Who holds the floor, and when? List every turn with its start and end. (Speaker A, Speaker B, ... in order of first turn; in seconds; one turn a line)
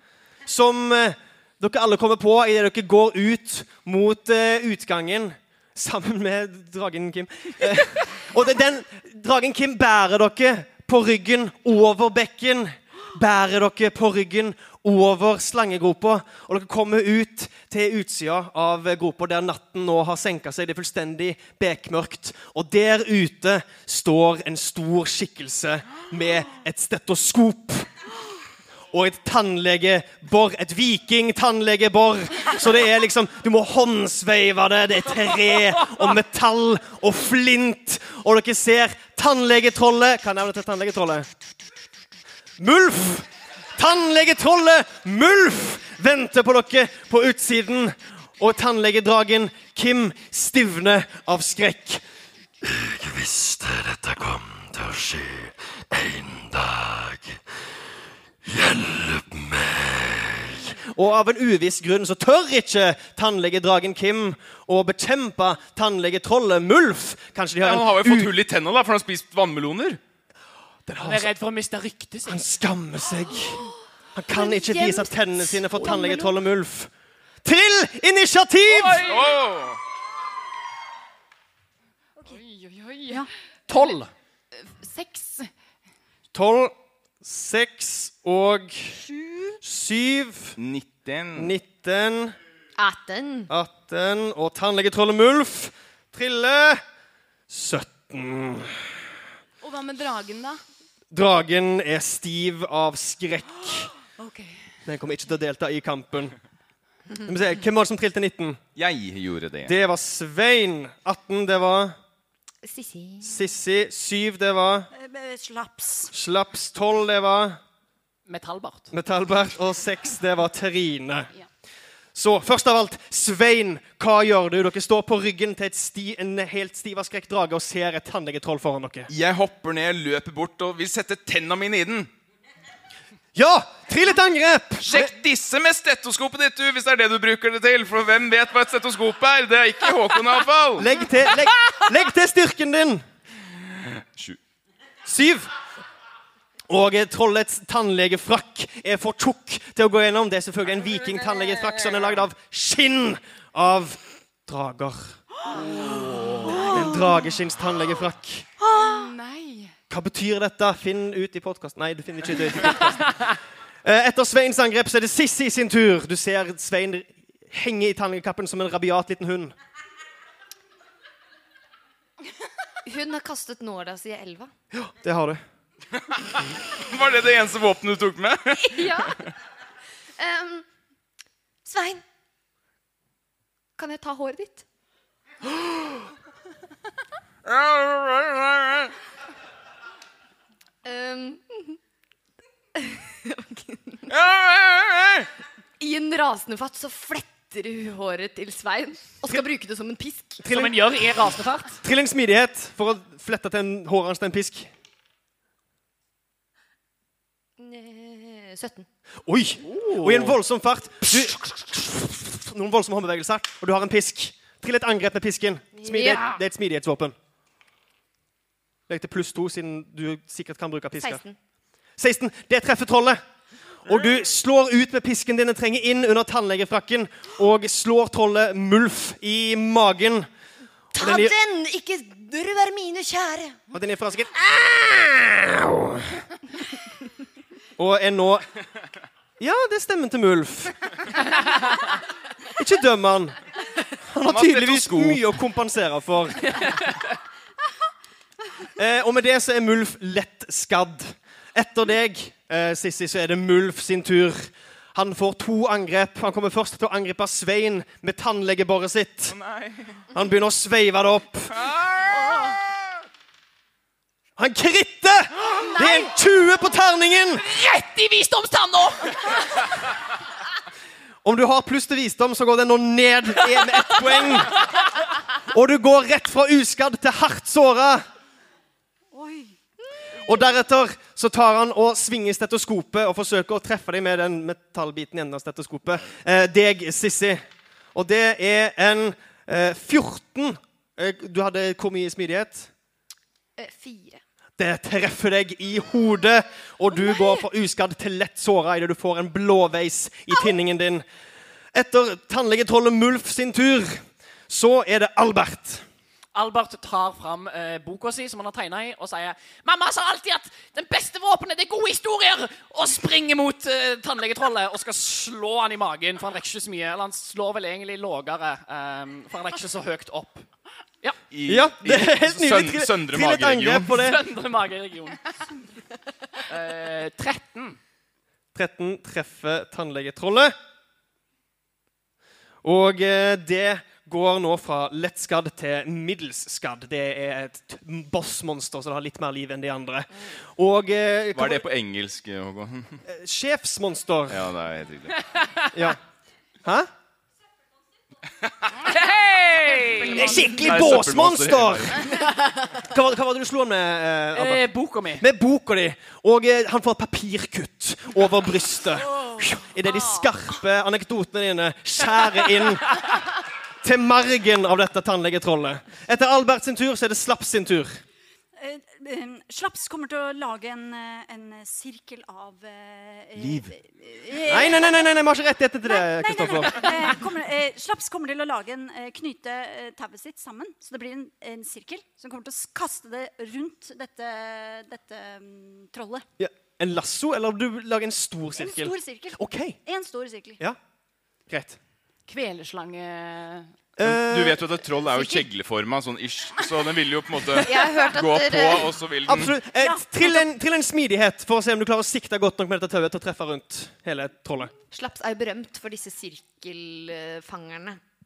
Speaker A: 0.5-27.9
Speaker A: 28.9-41.3
Speaker A: 42.6-52.0
Speaker B: 52.6-57.4
Speaker B: 58.4-60.7
Speaker A: 60.8-68.4
Speaker C: 67.6-70.0
Speaker A: 70.9-71.3
Speaker D: 71.0-72.4
Speaker A: 72.3-73.6
Speaker A: 74.2-76.9
Speaker E: 74.4-76.2
Speaker D: 75.8-76.1
Speaker A: 77.4-79.1
Speaker D: 78.7-79.4
Speaker C: 79.0-79.8
Speaker F: 82.2-83.3
Speaker D: 83.7-84.1
Speaker F: 84.6-85.5
Speaker A: 86.3-89.0
Speaker G: 89.2-89.5
Speaker A: 89.6-90.6
Speaker C: 90.6-91.5
Speaker A: 91.3-92.4
Speaker E: 92.8-93.5
Speaker A: 93.5-96.8
Speaker A: 97.5-98.9
Speaker F: 99.6-100.6
Speaker A: 101.1-103.9
Speaker F: 104.2-104.5
Speaker A: 104.8-106.3
Speaker A: 107.2-108.6
Speaker C: 108.8-109.7
Speaker A: 109.7-112.0
Speaker E: 112.6-113.3
Speaker A: 113.2-114.9
Speaker G: 114.9-116.1
Speaker A: 116.1-117.6
Speaker D: 118.3-118.9
Speaker A: 118.9-121.3
Speaker A: 122.2-129.1
Speaker C: 129.1-132.1
Speaker A: 133.3-135.1
Speaker C: 134.8-140.9
Speaker A: 140.8-143.0
Speaker A: 145.1-145.5
Speaker A: 146.7-158.4
Speaker D: 155.8-156.3
Speaker G: 156.4-157.2
Speaker G: 158.6-159.1
Speaker F: 158.7-159.7
Speaker A: 159.9-163.2
Speaker A: 163.8-169.6
Speaker E: 172.8-174.5
Speaker A: 174.7-175.4
Speaker C: 176.7-179.1
Speaker E: 178.6-179.2
Speaker E: 180.2-180.7
Speaker E: 181.7-182.0
Speaker E: 183.8-184.7
Speaker C: 187.4-188.9
Speaker E: 190.8-191.8
Speaker E: 192.8-194.1
Speaker C: 194.1-195.3
Speaker E: 195.8-200.5
Speaker A: 200.4-200.9
Speaker D: 200.5-201.8
Speaker A: 201.8-204.7
Speaker E: 207.6-208.9
Speaker A: 209.3-217.2
Speaker D: 209.7-210.3
Speaker E: 215.8-216.4
Speaker A: 218.9-221.2
Speaker E: 220.9-221.4
Speaker A: 222.0-223.2
Speaker A: 223.8-230.3
Speaker A: 230.9-231.3
Speaker E: 230.9-233.6
Speaker A: 233.7-236.2
Speaker A: 237.8-238.4
Speaker A: 239.4-240.8
Speaker A: 242.6-243.4
Speaker A: 244.1-246.8
Speaker C: 244.3-245.2
Speaker D: 246.6-246.9
Speaker A: 248.8-259.4
Speaker C: 259.3-260.1
Speaker A: 260.1-261.5
Speaker C: 261.5-262.5
Speaker A: 264.4-267.4
Speaker D: 267.4-269.6
Speaker A: 271.2-274.6
Speaker A: 275.4-278.0
Speaker G: 279.1-279.6
Speaker A: 280.2-287.4
Speaker A: 287.9-292.7
Speaker E: 293.6-294.2
Speaker A: 294.6-301.1
Speaker A: 301.7-305.9
Speaker D: 306.4-320.4
Speaker C: 321.3-324.0
Speaker A: 321.4-324.2
Speaker D: 323.9-325.2
Speaker D: 326.5-327.8
Speaker A: 328.5-330.6
Speaker A: 332.6-341.6
Speaker C: 341.4-343.0
Speaker A: 343.1-344.5
Speaker C: 344.3-345.2
Speaker D: 345.2-345.6
Speaker A: 345.7-346.0
Speaker A: 346.6-346.9
Speaker D: 348.8-350.4
Speaker A: 350.1-352.1
Speaker C: 350.4-352.1
Speaker A: 352.8-363.0
Speaker D: 354.3-355.3
Speaker A: 363.8-368.0
Speaker G: 368.6-375.1
Speaker C: 373.4-373.7
Speaker A: 374.5-377.1
Speaker G: 375.8-386.2
Speaker A: 386.4-389.8
Speaker G: 388.6-390.6
Speaker A: 391.5-391.8
Speaker F: 392.3-393.7
Speaker A: 394.0-394.6
Speaker C: 394.0-399.6
Speaker E: 397.5-399.0
Speaker A: 399.3-404.7
Speaker G: 399.7-400.4
Speaker E: 404.9-408.0